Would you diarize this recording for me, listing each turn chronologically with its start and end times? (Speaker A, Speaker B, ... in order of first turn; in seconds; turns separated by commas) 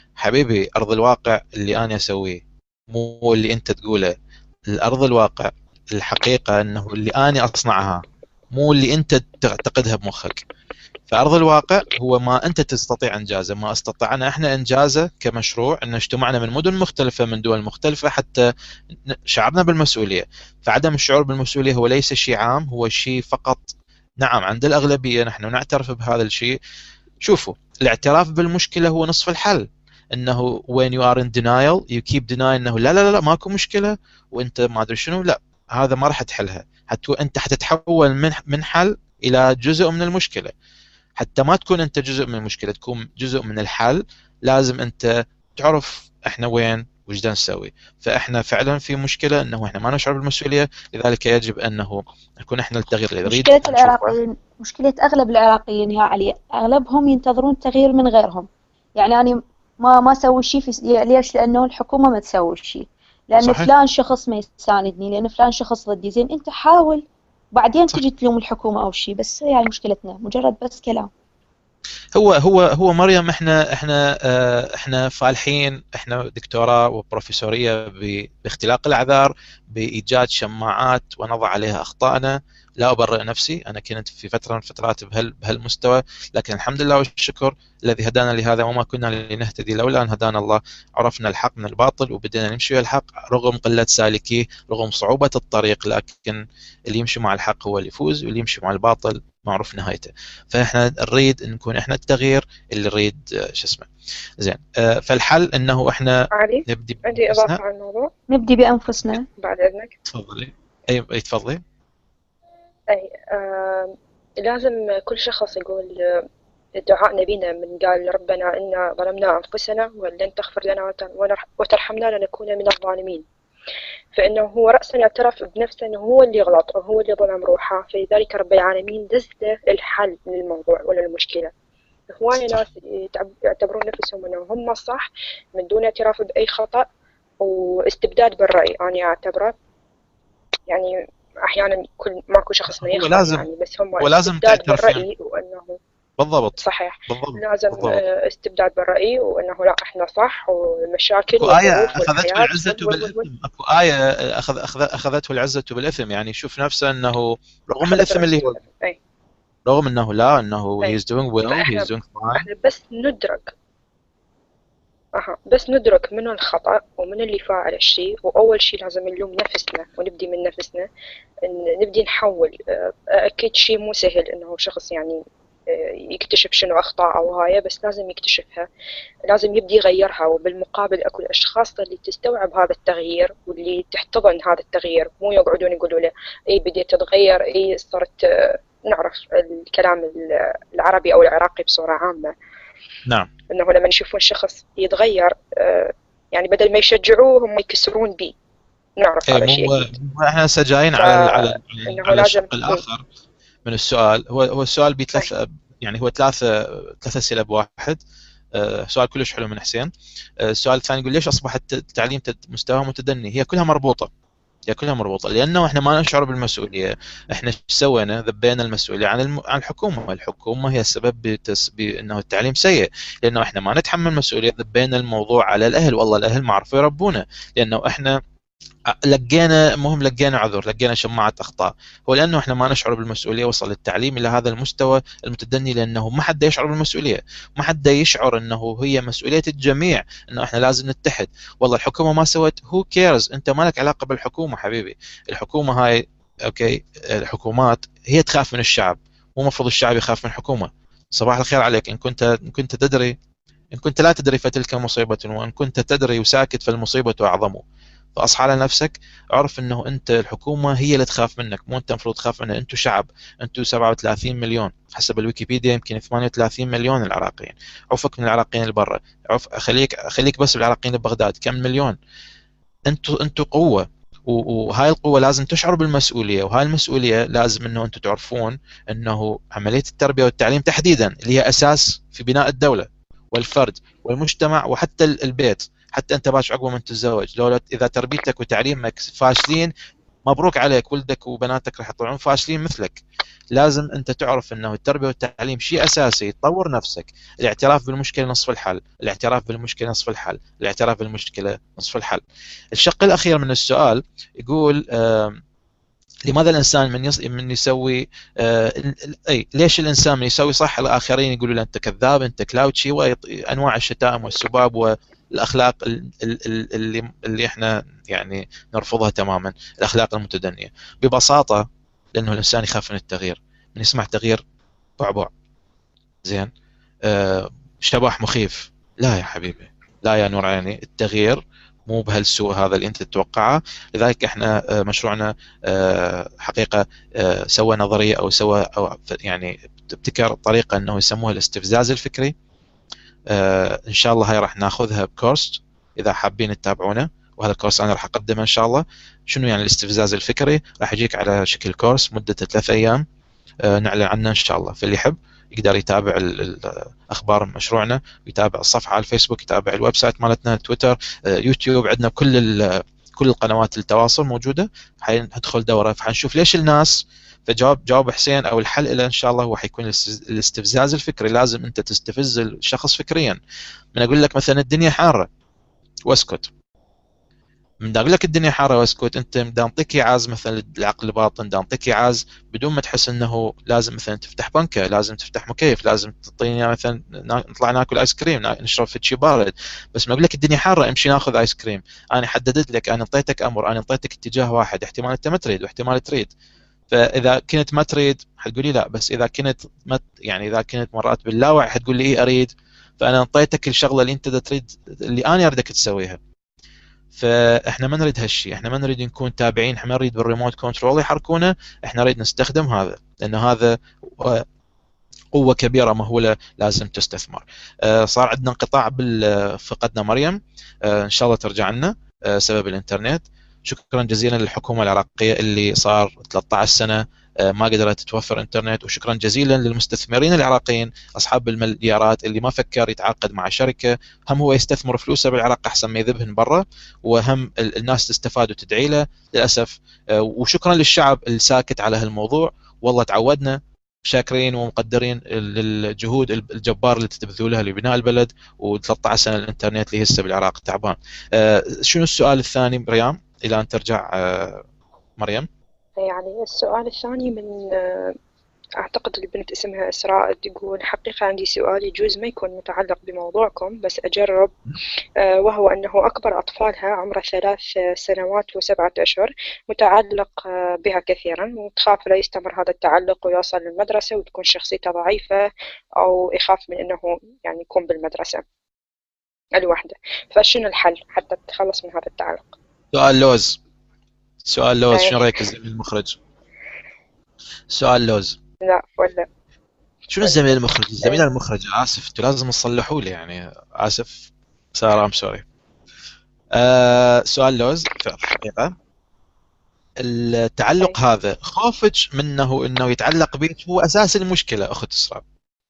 Speaker A: 0.2-4.1, Speaker A: 4.7-8.0, Speaker A: 8.5-10.4, Speaker A: 11.1-18.4, Speaker A: 19.1-26.6, Speaker A: 27.2-40.5, Speaker A: 41.2-54.1, Speaker B: 53.3-71.1, Speaker A: 63.4-63.7, Speaker A: 72.2-103.9, Speaker A: 104.4-107.6, Speaker C: 106.3-108.1, Speaker B: 108.3-109.3, Speaker C: 109.4-110.0, Speaker A: 110.1-111.6, Speaker C: 112.9-123.2, Speaker C: 124.1-131.5, Speaker C: 132.1-136.9, Speaker A: 132.3-132.6, Speaker C: 137.4-139.6, Speaker C: 140.7-140.9, Speaker C: 141.4-145.8, Speaker A: 142.7-143.5, Speaker A: 144.0-145.1, Speaker A: 146.2-148.0, Speaker C: 146.6-153.3, Speaker A: 151.4-158.6, Speaker C: 157.8-159.0, Speaker A: 159.7-162.5, Speaker C: 161.5-163.5, Speaker C: 165.2-170.9, Speaker C: 171.4-178.7, Speaker C: 179.3-192.3, Speaker C: 193.5-198.3, Speaker C: 199.0-199.9, Speaker A: 199.3-203.0, Speaker C: 201.0-202.8, Speaker A: 203.7-208.0, Speaker A: 208.6-214.1, Speaker A: 214.7-228.2, Speaker A: 228.9-253.2, Speaker A: 253.8-257.6, Speaker A: 258.2-272.0, Speaker A: 272.9-289.7, Speaker A: 290.3-302.2, Speaker A: 302.8-305.4, Speaker A: 306.3-324.4, Speaker A: 325.0-325.3, Speaker A: 326.2-326.5, Speaker A: 327.1-342.3, Speaker A: 343.3-353.0, Speaker A: 353.6-373.4, Speaker A: 373.9-375.3, Speaker A: 376.1-376.5, Speaker A: 377.8-396.3, Speaker A: 396.9-406.2, Speaker A: 407.1-414.4, Speaker A: 415.3-454.6, Speaker A: 455.2-455.5, Speaker C: 456.0-458.2, Speaker C: 458.8-464.6, Speaker C: 465.2-475.5, Speaker C: 476.0-478.4, Speaker C: 479.6-482.6, Speaker A: 482.9-483.6, Speaker A: 484.4-486.2, Speaker C: 484.9-485.2, Speaker A: 487.7-488.4, Speaker C: 488.6-489.3, Speaker A: 490.1-495.4, Speaker C: 490.2-491.2, Speaker A: 496.6-498.8, Speaker A: 500.0-505.2